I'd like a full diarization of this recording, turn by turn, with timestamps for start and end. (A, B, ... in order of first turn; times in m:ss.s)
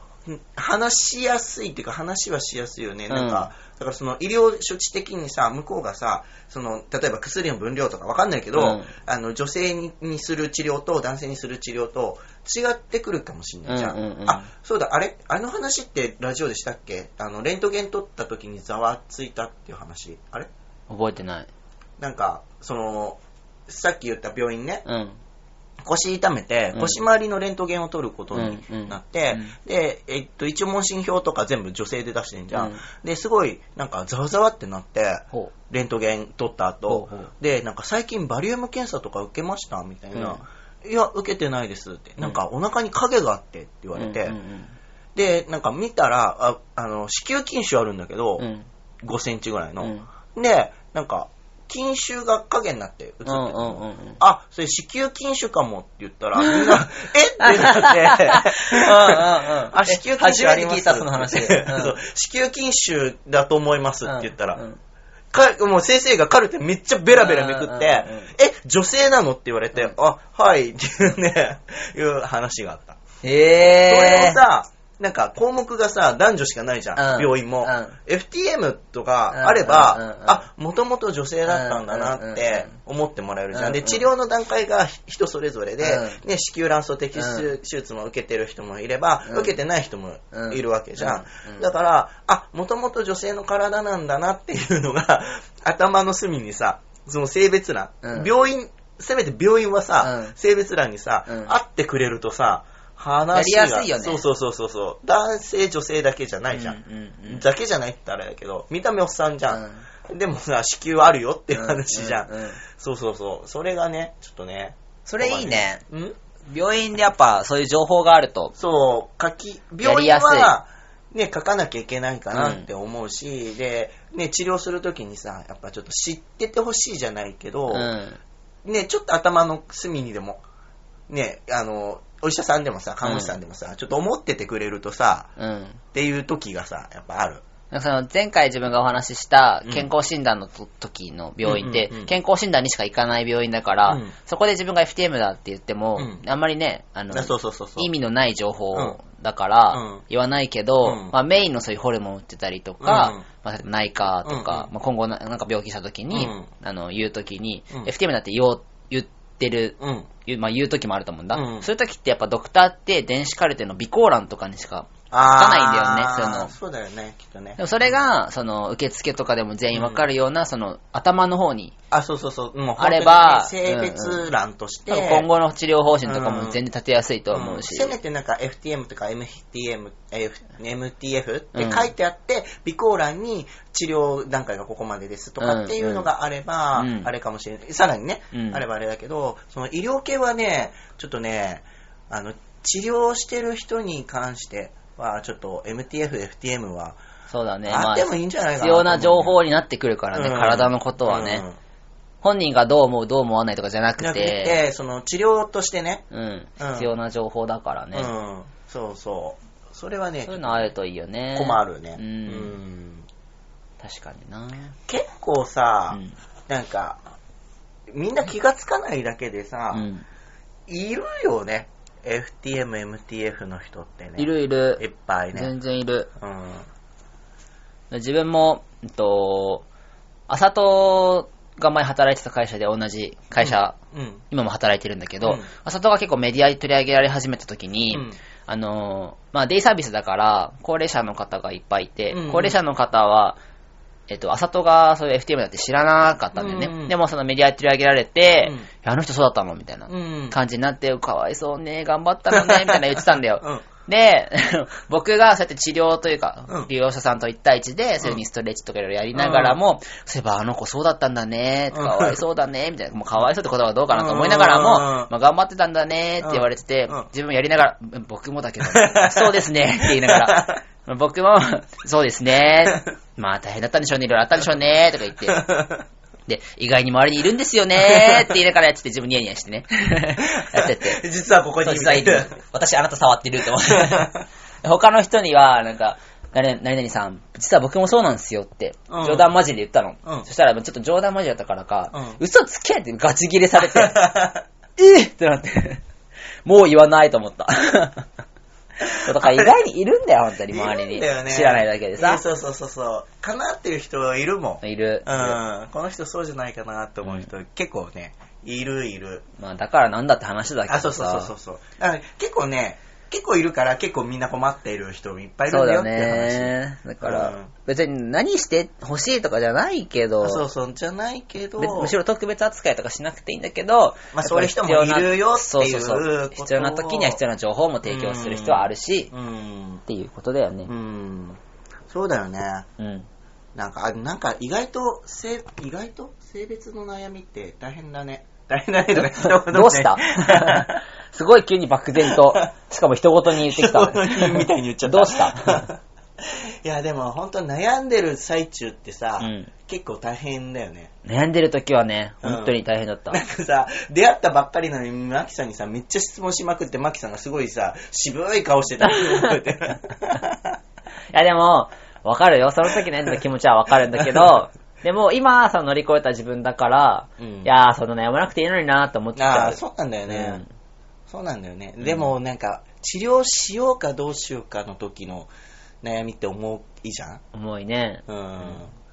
0:00.2-0:20.5 A
0:03.1-0:03.5 B
0:08.5-0:08.9 B
0:13.6-0:14.5 B
0:20.9-0:21.5 B
0:22.0-0:24.8 A
0:24.8-0:25.2 B
0:25.8-0:44.4 A
0:26.7-0:27.0 B
0:28.3-0:29.6 B
0:32.5-0:32.8 B
0:36.9-0:37.3 B
0:40.1-0:40.4 B
0:44.0-0:44.7 B
0:45.1-0:48.4 A
0:48.4-0:48.7 B
0:49.0-1:04.6 A
0:49.8-0:50.1 B
0:53.2-0:54.2 B
0:56.4-0:56.8 B
0:57.4-1:02.0 B
1:04.0-1:04.8 B
1:05.3-1:13.0 A
1:07.1-1:08.3 B
1:13.2-1:14.4 B
1:13.8-1:56.2 A
1:17.0-1:18.0 B
1:19.3-1:20.4 B
1:21.5-1:22.8 B
1:23.5-1:24.0 B
1:25.8-1:26.2 B
1:27.1-1:27.5 B
1:29.2-1:29.5 B
1:30.3-1:31.7 B
1:38.0-1:38.3 B
1:40.0-1:40.4 B
1:41.3-1:41.5 B
1:43.3-1:44.2 B
1:46.5-1:47.4 B
1:49.5-1:49.8 B
1:51.5-1:52.6 B
1:55.1-1:55.8 B
1:56.5-1:58.5 B
1:58.5-2:07.9 A
1:59.8-2:00.5 B
2:02.3-2:02.7 B
2:07.7-2:08.2 B
2:08.6-2:10.4 A
2:11.1-2:15.3 A
2:13.0-2:13.4 B
2:15.4-2:15.8 B
2:15.9-2:17.4 A
2:17.7-2:46.5 B
2:21.4-2:22.1 A
2:23.8-2:24.1 A
2:26.0-2:26.2 A
2:27.1-2:27.9 A
2:28.7-2:29.0 A
2:29.7-2:30.0 A
2:30.8-2:31.2 A
2:32.8-2:33.2 A
2:34.2-2:34.7 A
2:36.1-2:36.5 A
2:39.8-2:40.1 A
2:41.3-2:41.6 A
2:45.1-2:47.9 A
2:47.6-2:51.7 B
2:49.7-2:50.1 A
2:51.9-2:55.3 A
2:52.8-2:54.3 B
2:54.9-2:57.9 B
2:56.0-2:56.6 A
2:57.3-3:17.0 A
3:01.6-3:01.9 B
3:05.4-3:06.1 B
3:06.8-3:07.1 B
3:08.3-3:08.6 B
3:17.3-3:21.4 B
3:17.7-3:19.4 A
3:20.1-3:21.6 A
3:22.2-3:24.6 B
3:24.0-3:26.0 A
3:26.1-3:28.1 B
3:26.6-3:26.9 A
3:27.9-3:30.7 A
3:30.2-3:32.6 B
3:31.3-3:33.0 A
3:33.8-3:34.7 B
3:34.9-3:37.0 A
3:37.9-3:39.9 A
3:39.7-3:40.0 B
3:40.7-3:45.5 A
3:44.2-3:44.8 B
3:45.3-3:46.1 B
3:46.2-3:46.7 A
3:47.9-3:49.6 B
3:50.3-3:53.7 B
3:53.4-3:54.2 A
3:54.3-4:03.4 B
3:55.2-3:55.5 A
3:57.9-3:58.2 A
4:02.1-4:02.5 A
4:04.1-4:35.4 B
4:06.3-4:06.9 A
4:09.9-4:10.4 A
4:12.3-4:13.6 A
4:19.1-4:19.6 A
4:21.7-4:22.2 A
4:23.9-4:25.1 A
4:26.2-4:27.1 A
4:28.6-4:30.6 A
4:32.6-4:32.9 A
4:35.2-4:35.8 A
4:36.3-4:41.0 B
4:37.8-4:38.3 A
4:40.3-4:42.4 A
4:41.6-4:44.1 B
4:43.6-4:44.2 A
4:44.6-4:54.1 B
4:48.9-4:49.3 A
4:51.9-4:52.2 A
4:53.6-4:54.4 A
4:54.8-4:55.8 B
4:56.4-4:58.1 B
4:58.8-4:59.6 A
4:58.9-5:02.2 B
5:00.5-5:09.2 A
5:04.6-5:05.4 B
5:07.0-5:07.3 B
5:09.4-5:11.3 B
5:10.7-5:17.5 A
5:15.5-5:20.4 B
5:20.2-5:21.9 A
5:21.6-5:29.1 B
5:24.1-5:27.2 A
5:27.8-5:29.8 A
5:29.9-5:30.7 B
5:30.6-5:32.6 A
5:32.8-5:33.1 B
5:33.5-5:40.8 A
5:39.1-5:45.7 B
5:42.0-5:42.5 A
5:43.4-5:50.9 A
5:49.2-5:49.5 B
5:51.0-5:53.2 B
5:52.2-5:52.6 A
5:53.1-6:00.6 A
5:58.8-5:59.4 B
6:01.1-6:10.5 B
6:04.0-6:04.4 A
6:07.2-6:07.5 A
6:09.2-6:10.4 A
6:11.1-6:15.3 A
6:11.8-6:12.1 B
6:15.8-6:17.2 A
6:17.3-6:18.6 B
6:18.1-6:18.7 A